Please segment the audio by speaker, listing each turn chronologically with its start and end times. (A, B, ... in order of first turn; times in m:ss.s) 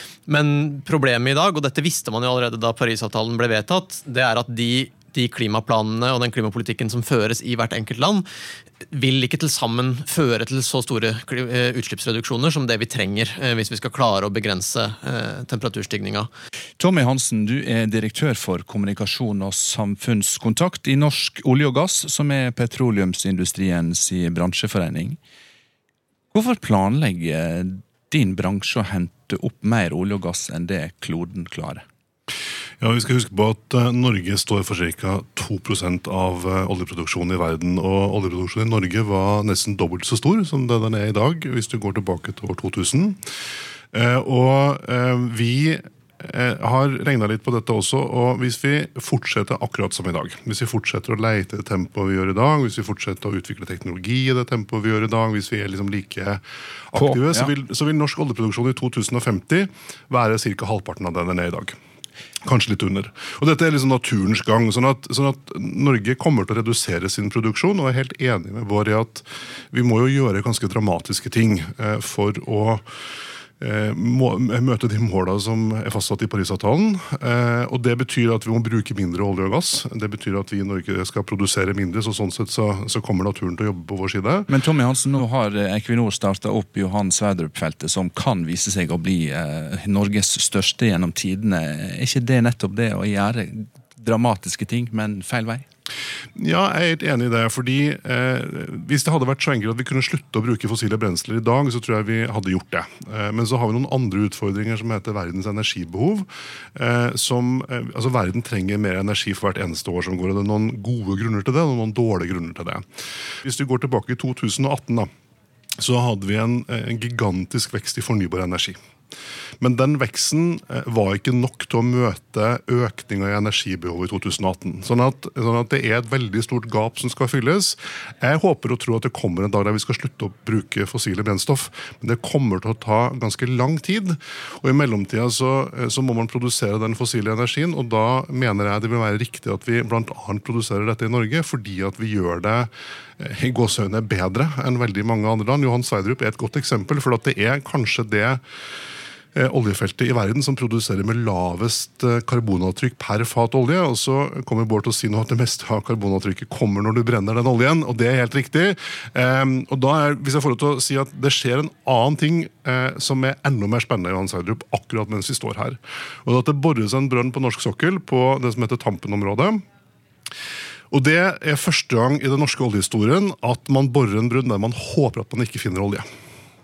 0:00.3-0:08.2 A
0:08.9-0:16.3 A
0:16.8-0:25.2 B
0:26.3-0:31.8 B
0:32.8-0:43.2 C
0:43.9-1:01.8 C
0:56.9-0:57.5 B
1:02.4-1:12.8 C
1:13.6-1:24.5 C
1:24.5-1:35.6 B
1:36.4-1:52.8 C
1:53.4-1:55.1 C
1:55.8-1:58.8 C
1:59.6-2:22.7 C
2:23.2-2:28.4 C
2:29.4-2:49.6 C
2:50.9-2:56.0 C